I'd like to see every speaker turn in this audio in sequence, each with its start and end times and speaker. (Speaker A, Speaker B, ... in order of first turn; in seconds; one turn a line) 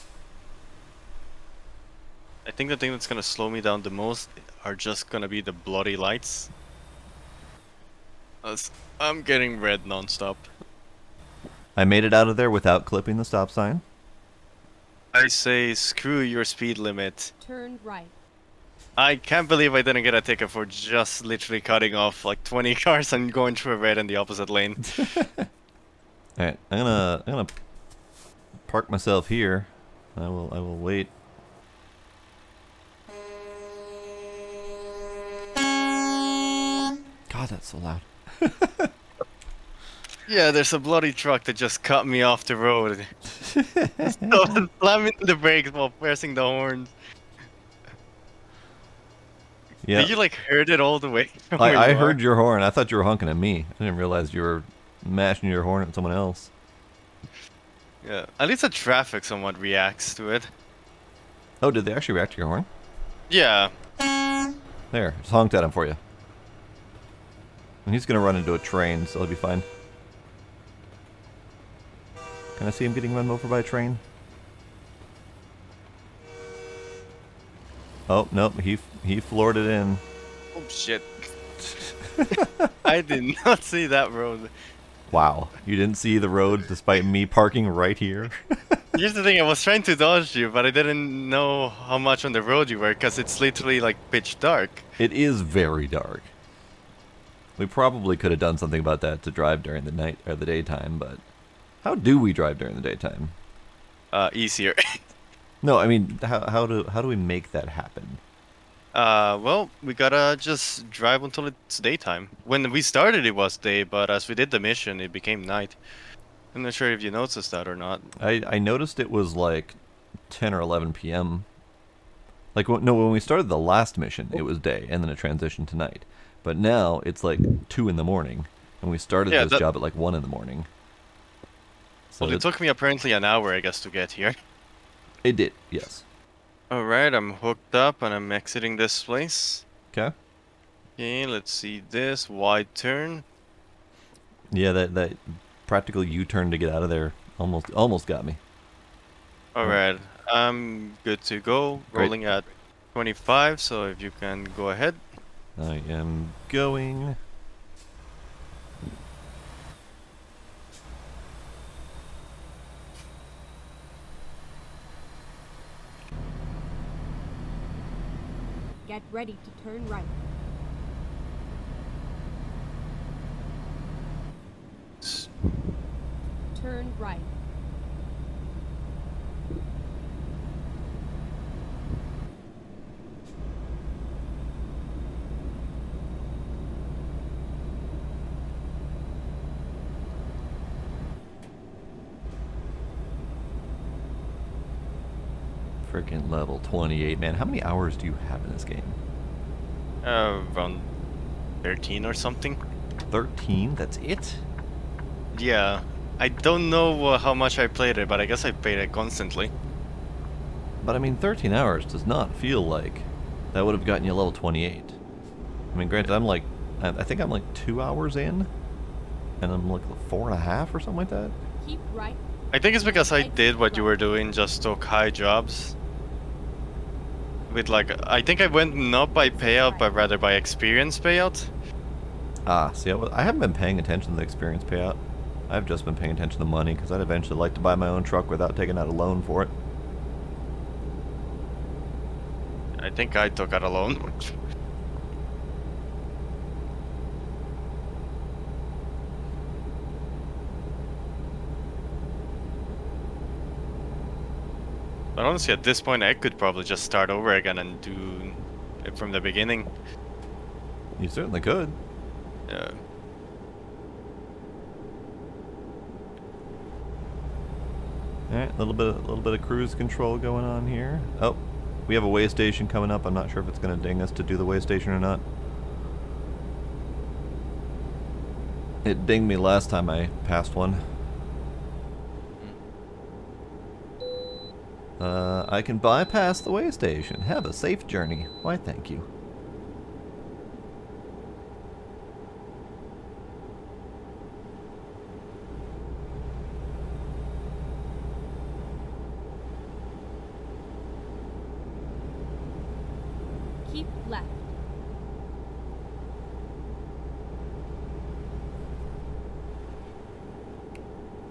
Speaker A: 2.5-6.5
Speaker A: 8.4-10.5
Speaker B: 11.8-13.8
Speaker A: 15.1-17.3
Speaker C: 17.4-18.1
Speaker A: 19.0-25.2
Speaker B: 24.9-25.5
Speaker B: 26.4-27.5
Speaker B: 28.7-31.1
Speaker B: 37.3-38.9
Speaker A: 40.3-43.1
Speaker B: 43.4-44.6
Speaker A: 44.0-46.9
Speaker B: 49.8-50.1
Speaker A: 49.9-52.2
Speaker B: 51.6-56.5
Speaker A: 58.0-60.5
Speaker B: 61.6-62.7
Speaker A: 63.3-63.7
Speaker B: 64.9-66.0
Speaker B: 67.8-69.7
Speaker B: 72.6-74.0
Speaker B: 78.1-80.0
Speaker A: 80.5-81.1
Speaker B: 82.2-82.7
Speaker A: 82.8-84.5
Speaker B: 85.1-88.8
Speaker A: 88.9-94.9
Speaker B: 95.0-96.3
Speaker B: 97.6-101.2
Speaker B: 101.8-103.3
Speaker A: 104.1-105.0
Speaker B: 105.6-108.2
Speaker A: 108.9-115.8
Speaker A: 116.5-118.1
Speaker B: 118.2-119.8
Speaker B: 120.3-121.5
Speaker B: 122.5-130.7
Speaker A: 129.3-129.6
Speaker A: 132.1-134.4
Speaker B: 132.2-132.4
Speaker B: 135.2-136.1
Speaker A: 136.7-139.7
Speaker A: 141.0-143.2
Speaker B: 144.5-148.4
Speaker A: 149.6-155.0
Speaker B: 155.6-157.2
Speaker C: 168.9-170.2
Speaker A: 175.0-175.3
Speaker C: 176.5-177.3
Speaker B: 195.8-199.0
Speaker A: 200.0-200.9
Speaker A: 201.6-202.6
Speaker B: 203.1-204.4
Speaker A: 205.3-209.5
Speaker B: 210.8-215.0
Speaker B: 215.7-218.5
Speaker B: 219.4-221.3
Speaker C: 221.6-222.2
Speaker A: 222.5-225.8
Speaker C: 222.8-224.0
Speaker A: 227.5-231.5
Speaker C: 229.2-230.0
Speaker B: 232.5-239.5
Speaker A: 242.8-244.3
Speaker A: 255.2-259.7
Speaker B: 261.0-261.8
Speaker A: 262.5-262.8
Speaker B: 268.3-275.2
Speaker B: 278.8-280.8
Speaker B: 285.0-289.1
Speaker C: 303.6-304.5